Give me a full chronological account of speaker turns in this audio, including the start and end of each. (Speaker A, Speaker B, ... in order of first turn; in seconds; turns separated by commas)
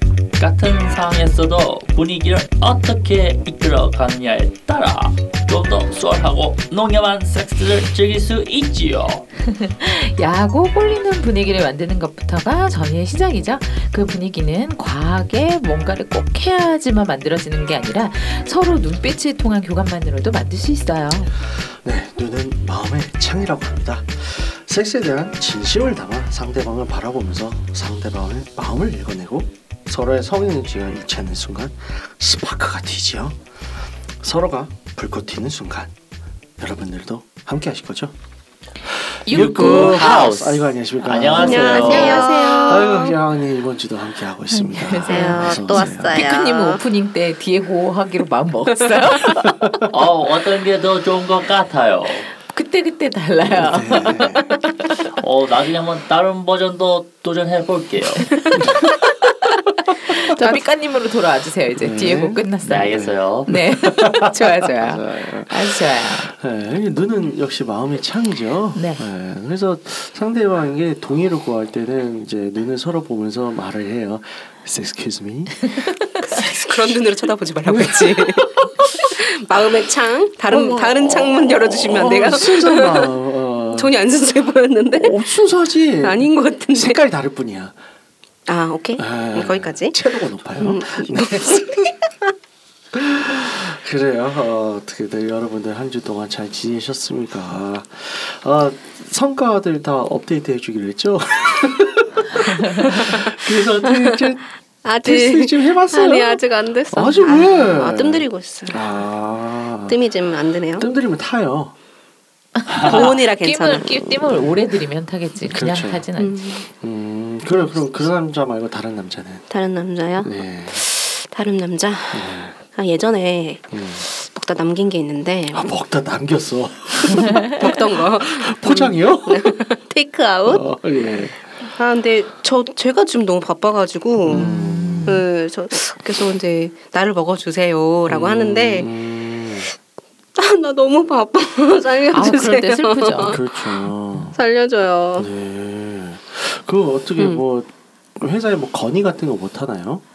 Speaker A: 0.4-9.3, Speaker B: 9.4-21.3, Speaker C: 21.6-33.4, Speaker C: 34.2-35.9, Speaker C: 36.6-38.1, Speaker C: 38.9-46.2, Speaker B: 39.3-40.3, Speaker A: 39.4-42.3, Speaker D: 41.4-43.1, Speaker B: 41.7-43.0, Speaker B: 44.5-49.7, Speaker D: 45.0-46.8, Speaker A: 49.9-52.3, Speaker B: 52.4-54.7, Speaker C: 53.4-54.6, Speaker A: 54.9-58.6, Speaker C: 58.5-58.9, Speaker B: 60.0-66.3, Speaker C: 60.3-60.6, Speaker C: 61.8-75.8, Speaker A: 62.6-63.5, Speaker B: 68.8-69.0, Speaker D: 76.2-83.1, Speaker C: 77.7-78.9, Speaker C: 80.5-84.0, Speaker D: 83.7-85.2, Speaker C: 84.9-87.7, Speaker D: 86.0-87.0, Speaker D: 88.5-90.0, Speaker C: 89.0-91.9, Speaker D: 90.6-92.0, Speaker C: 92.9-104.5, Speaker D: 103.9-104.3, Speaker D: 104.8-108.9, Speaker C: 105.0-110.0, Speaker D: 109.9-110.9, Speaker C: 110.8-111.8, Speaker B: 112.6-116.4, Speaker D: 112.8-113.9, Speaker C: 115.5-116.1, Speaker D: 116.2-116.7, Speaker C: 116.7-119.5, Speaker D: 119.5-125.7, Speaker C: 120.2-120.8, Speaker C: 122.1-122.6, Speaker C: 123.7-124.1, Speaker C: 125.5-129.6, Speaker D: 127.4-130.7, Speaker C: 130.5-131.4, Speaker D: 131.7-134.5, Speaker C: 134.3-135.2, Speaker B: 134.3-135.2, Speaker D: 135.0-138.9, Speaker C: 138.1-139.7, Speaker D: 140.4-143.4, Speaker B: 142.1-143.4, Speaker C: 143.1-144.4, Speaker D: 144.3-145.3, Speaker C: 145.2-150.0, Speaker D: 147.2-147.4